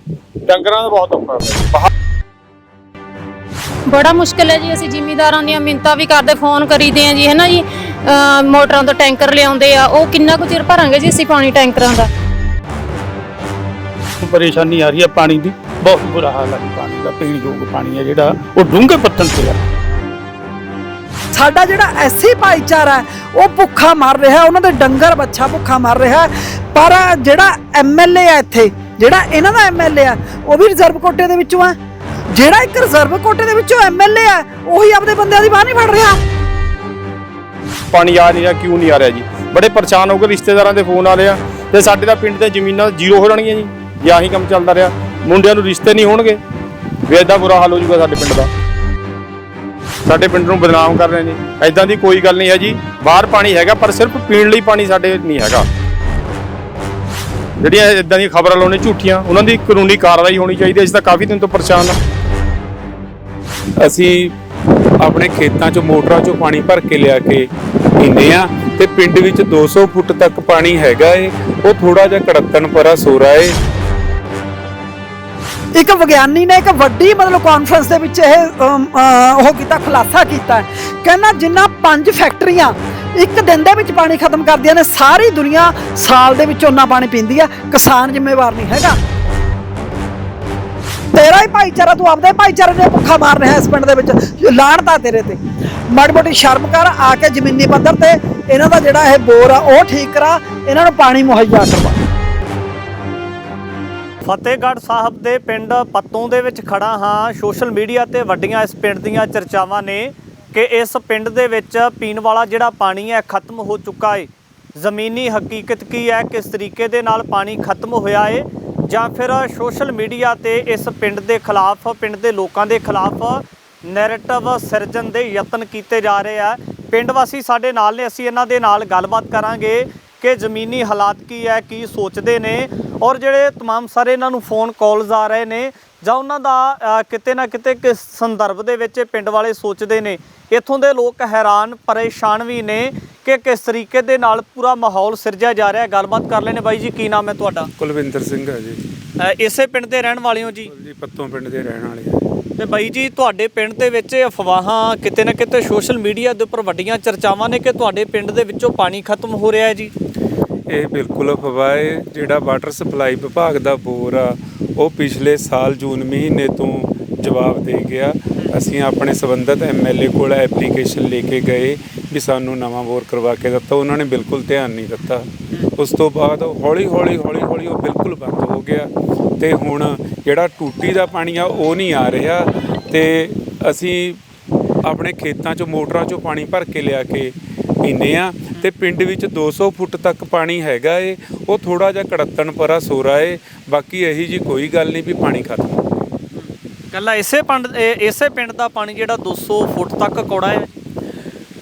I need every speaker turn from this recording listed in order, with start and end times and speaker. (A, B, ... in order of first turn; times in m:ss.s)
0:00.4-0:01.9 A
0:03.9-0:12.1 B
0:14.2-0:19.6 C
0:21.3-0:31.8 D
0:32.3-0:36.2 D
0:37.9-0:46.4 A
0:47.0-0:48.5 A
0:50.0-0:55.7 A
0:57.6-1:02.0 A
1:03.8-1:04.3 E
1:05.0-1:07.5 E
1:08.0-1:13.6 E
1:15.7-1:29.0 D
1:31.1-1:35.4 D
1:35.9-1:42.0 D
1:44.2-2:27.7 F
2:27.8-2:28.8 E
2:29.2-2:30.7 F
2:30.6-2:32.2 E
2:32.6-2:39.9 F
2:40.7-3:04.2 E
3:04.8-3:15.9 E
3:16.4-3:20.7 F